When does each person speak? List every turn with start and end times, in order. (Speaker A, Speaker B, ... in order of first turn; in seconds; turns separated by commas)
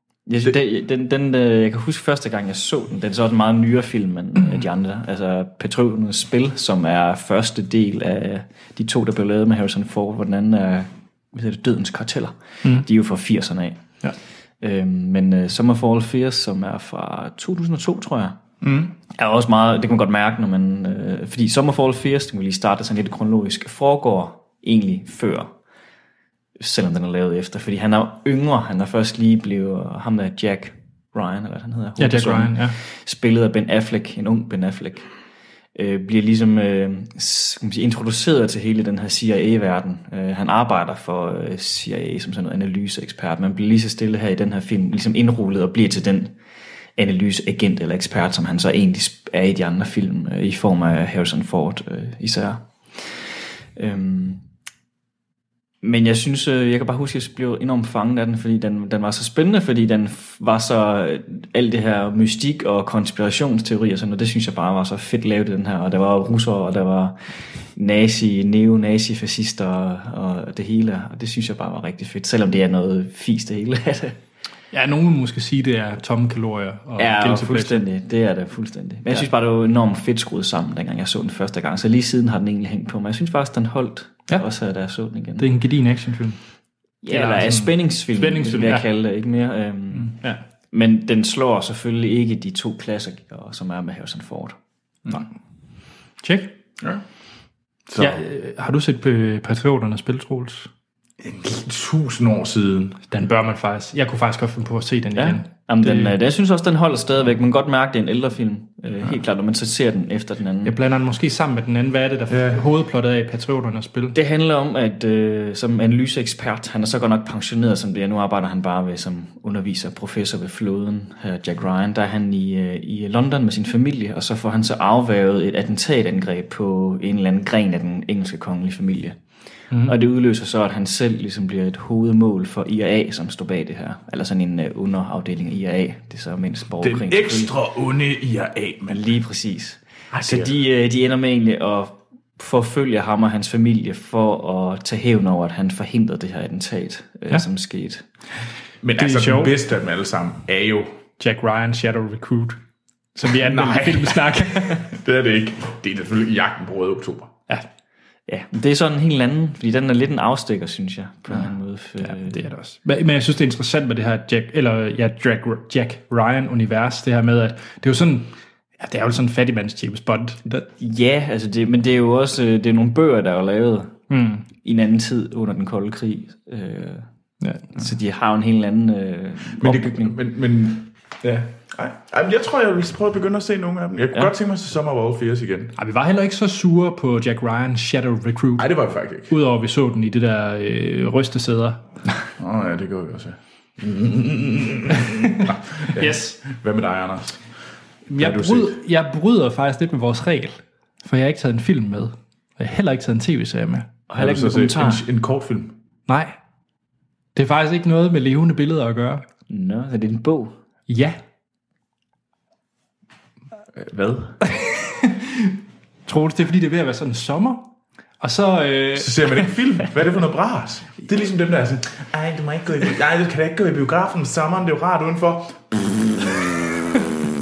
Speaker A: 0.3-13.8, Speaker A: 14.6-18.4, Speaker B: 18.6-18.9, Speaker A: 19.1-25.5, Speaker A: 26.6-35.1, Speaker C: 32.0-32.8, Speaker A: 35.7-46.3, Speaker A: 47.0-54.4, Speaker A: 55.8-67.2, Speaker A: 67.8-74.2, Speaker C: 74.7-77.8, Speaker A: 77.0-85.5, Speaker C: 85.4-86.4, Speaker A: 87.0-90.2, Speaker C: 87.1-88.9, Speaker A: 90.7-94.6, Speaker C: 96.2-96.6, Speaker B: 97.9-98.2, Speaker C: 98.0-100.7, Speaker B: 101.2-103.0, Speaker C: 103.1-106.1, Speaker A: 105.2-110.8, Speaker C: 110.6-114.2, Speaker B: 112.3-112.6, Speaker A: 114.1-129.2, Speaker A: 129.8-137.5, Speaker B: 136.8-139.0, Speaker A: 138.9-148.0, Speaker B: 140.1-140.5, Speaker B: 148.8-150.9, Speaker C: 148.9-149.6, Speaker C: 151.2-152.6, Speaker C: 153.2-154.9, Speaker B: 153.3-157.3, Speaker A: 158.3-162.4, Speaker C: 162.0-170.7, Speaker A: 170.8-174.0, Speaker C: 174.1-174.5, Speaker A: 174.6-177.1, Speaker A: 177.7-180.2, Speaker B: 179.6-185.7, Speaker C: 185.8-188.7, Speaker B: 188.6-189.3, Speaker C: 189.3-191.8, Speaker B: 192.4-197.4, Speaker C: 195.1-195.4, Speaker C: 195.9-196.4, Speaker C: 198.1-203.9, Speaker B: 198.1-198.8, Speaker A: 204.1-205.0, Speaker B: 204.2-205.8, Speaker C: 206.1-206.3, Speaker C: 207.3-209.2, Speaker A: 209.5-210.5, Speaker C: 210.9-211.2, Speaker B: 213.7-214.4, Speaker C: 214.5-215.5, Speaker C: 216.1-219.3, Speaker B: 218.9-227.0